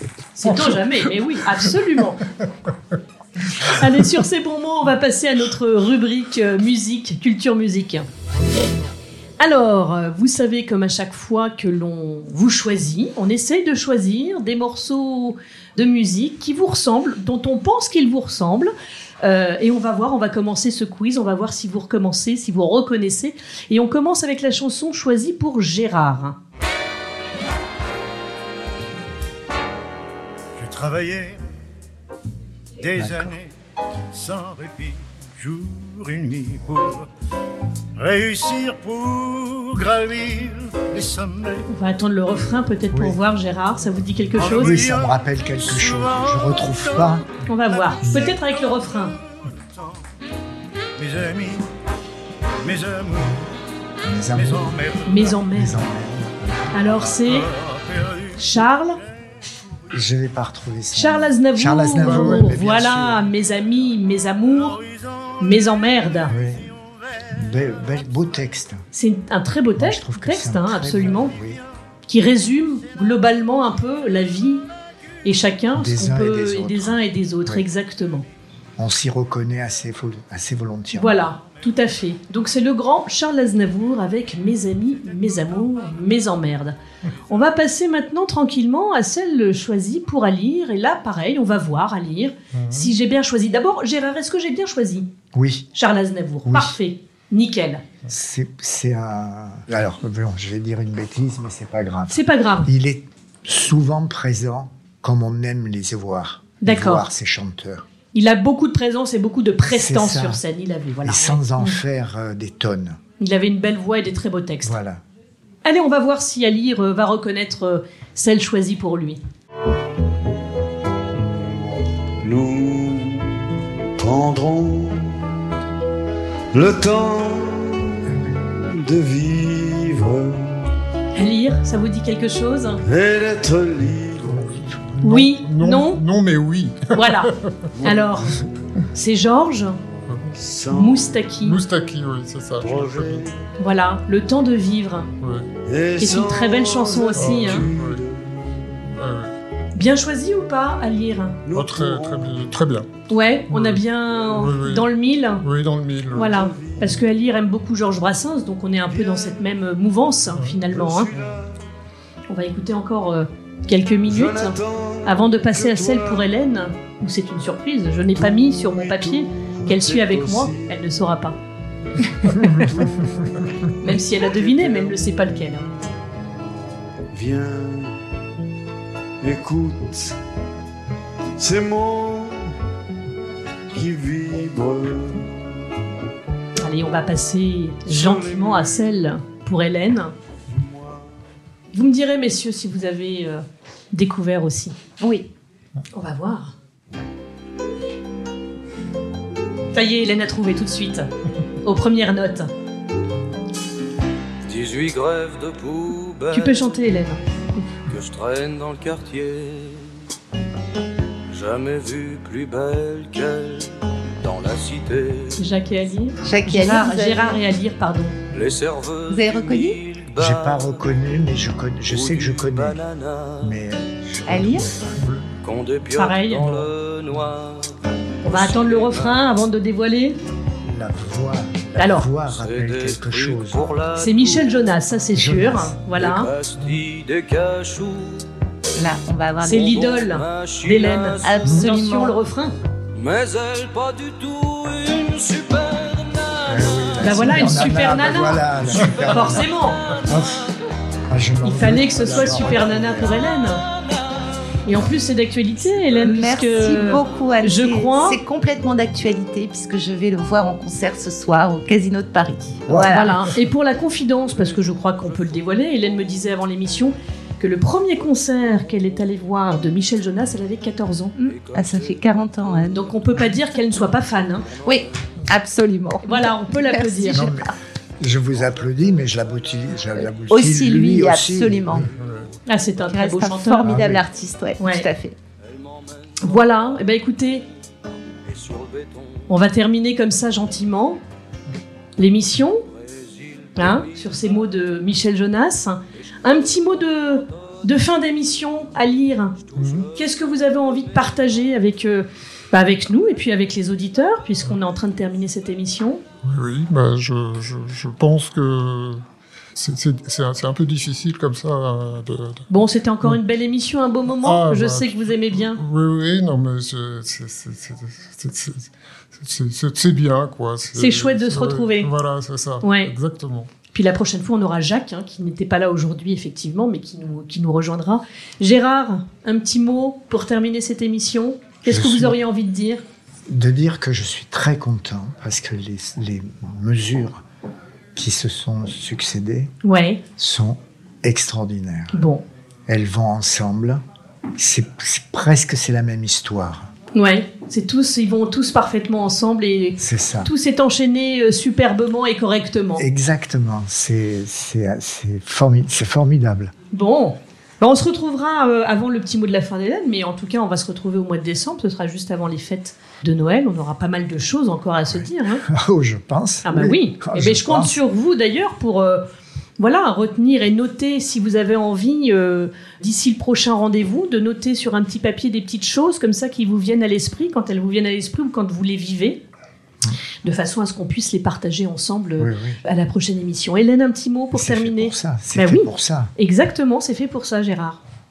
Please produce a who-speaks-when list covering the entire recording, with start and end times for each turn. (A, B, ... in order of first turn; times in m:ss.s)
0:00.4-0:02.2 A
0:00.4-0:01.1 B
0:03.6-0:08.1 A
0:09.4-0:26.4 A
0:30.6-0:31.4 C
0:32.8-0:33.5 C
0:33.0-0:33.4 D
0:34.1-0:37.1 C
0:38.0-0:41.7 C
0:41.7-0:44.8 A
0:42.9-0:43.2 D
0:44.4-0:47.2 C
0:44.5-0:47.3 D
0:47.5-0:49.2 A
0:48.0-0:48.4 D
0:48.0-0:48.5 C
0:51.0-0:51.6 C
0:52.6-0:53.4 C
0:54.0-0:57.1 D
0:54.3-0:55.4 C
0:55.1-0:55.8 A
0:56.7-0:57.5 A
0:57.2-0:58.4 C
0:58.4-0:59.0 A
0:59.9-1:03.2 D
1:00.9-1:04.8 A
1:02.0-1:02.6 B
1:04.6-1:05.3 C
1:05.4-1:06.4 A
1:06.3-1:06.7 D
1:07.3-1:08.8 D
1:08.9-1:11.3 A
1:09.8-1:11.6 D
1:12.1-1:14.7 A
1:15.2-1:18.3 A
1:15.8-1:17.7 D
1:18.8-1:21.3 D
1:20.9-1:26.8 A
1:27.3-1:35.1 A
1:32.6-1:32.9 B
1:35.3-1:35.7 D
1:35.8-1:37.8 A
1:36.5-1:36.8 D
1:38.1-1:47.8 D
1:42.1-1:42.7 A
1:46.6-1:47.1 A
1:48.1-1:51.8 A
1:49.6-1:50.4 D
1:51.0-1:53.0 D
1:53.2-1:54.8 A
1:54.6-1:55.0 D
1:55.6-1:59.2 A
2:01.1-2:03.4 E
2:04.0-2:05.4 E
2:06.5-2:08.0 E
2:08.6-2:10.7 E
2:11.2-2:12.8 A
2:12.8-2:14.6 E
2:15.0-2:17.7 B
2:15.0-2:16.0 A
2:16.9-2:18.3 A
2:17.8-2:18.2 E
2:18.9-2:19.8 A
2:20.3-2:21.2 E
2:20.7-2:21.6 A
2:21.4-2:23.3 B
2:22.6-2:23.4 E
2:23.6-2:25.1 A
2:25.2-2:25.5 B
2:25.7-2:28.7 E
2:26.0-2:27.6 A
2:27.2-2:28.0 B
2:28.9-2:29.3 B
2:29.8-2:31.4 A
2:31.4-2:32.5 E
2:31.5-2:32.9 B
2:33.1-2:35.4 A
2:33.5-2:34.9 B
2:35.4-2:36.4 B
2:36.1-2:37.0 E
2:36.1-2:41.1 A
2:38.9-2:39.3 E
2:40.7-2:41.5 E
2:42.3-2:51.4 A
2:44.1-2:46.3 E
2:48.2-2:50.8 E
2:52.4-2:53.1 E
2:52.4-2:52.7 B
2:53.6-2:55.1 E
2:53.8-2:55.7 A
2:57.1-2:58.0 E
2:59.2-3:00.2 E
3:01.4-3:02.5 E
3:03.7-3:05.5 E
3:06.6-3:10.1 A
3:07.9-3:08.8 E
3:10.5-3:11.0 E
3:11.7-3:14.8 A
3:15.0-3:15.3 F
3:15.9-3:16.5 A
3:19.7-3:21.1 A
3:21.6-3:22.5 A
3:24.4-3:26.7 G
3:26.3-3:27.2 A
3:27.9-3:29.9 G
3:31.3-3:35.4 G
3:35.4-3:38.2 A
3:36.2-3:37.4 F
3:38.3-3:41.2 G
3:39.1-3:39.8 F
3:40.2-3:42.8 D
3:41.9-3:44.4 G
3:43.4-3:44.7 D
3:44.3-3:44.7 F
3:44.5-3:45.3 B
3:45.4-3:49.2 G
3:45.9-3:46.6 A
3:48.2-3:50.2 A
3:50.7-3:53.6 D
3:51.8-3:52.1 A
3:52.3-3:54.6 G
3:54.0-3:56.3 A
3:55.1-3:55.8 D
3:55.9-3:58.2 G
3:58.8-3:59.9 F
3:59.4-4:02.6 A
3:59.6-4:01.7 G
4:01.2-4:02.2 F
4:02.9-4:10.4 G
4:06.5-4:10.5 D
4:07.0-4:08.5 A
4:09.0-4:09.8 A
4:11.1-4:13.2 D
4:11.4-4:13.6 A
4:13.4-4:14.2 G
4:14.7-4:18.2 A
4:16.0-4:23.2 F
4:22.7-4:23.2 D
4:22.9-4:31.2 A
4:24.4-4:26.1 G
4:31.2-4:32.8 F
4:31.2-4:32.7 G
4:32.7-4:34.5 A
4:34.5-4:34.9 G
4:34.6-4:37.5 F
4:36.0-4:37.3 A
4:37.1-4:41.9 D
4:38.4-4:38.7 G
4:40.0-4:41.9 F
4:41.9-4:42.3 B
4:42.5-4:43.8 A
4:42.9-4:45.2 F
4:43.6-4:44.1 D
4:44.6-4:44.9 A
4:45.4-4:46.5 G
4:46.2-4:47.4 A
4:48.3-4:49.3 G
4:49.3-4:51.0 A
4:52.0-4:52.6 A
4:52.7-4:54.2 G
4:53.6-4:59.4 A
4:59.4-5:00.1 G
4:59.6-4:59.9 B
5:00.0-5:06.0 A
5:06.2-5:09.0 B
5:09.6-5:12.5 B
5:12.5-5:15.6 A
5:14.2-5:23.5 B
5:20.8-5:21.9 A
5:22.6-5:22.9 A
5:23.7-5:32.8 A
5:31.7-5:32.2 D
5:33.3-5:37.2 D
5:38.0-5:39.5 D
5:39.6-5:40.0 A
5:40.2-5:42.0 D
5:41.9-5:42.2 A
5:42.7-5:43.8 D
5:44.4-5:46.7 D
5:47.0-5:52.8 A
5:49.8-5:50.3 D
5:52.8-5:56.5 D
5:56.7-6:05.4 A
6:04.9-6:07.8 D
6:06.4-6:09.0 A
6:09.6-6:19.2 A
6:20.2-6:27.8 A
6:22.2-6:22.6 D
6:24.3-6:26.1 D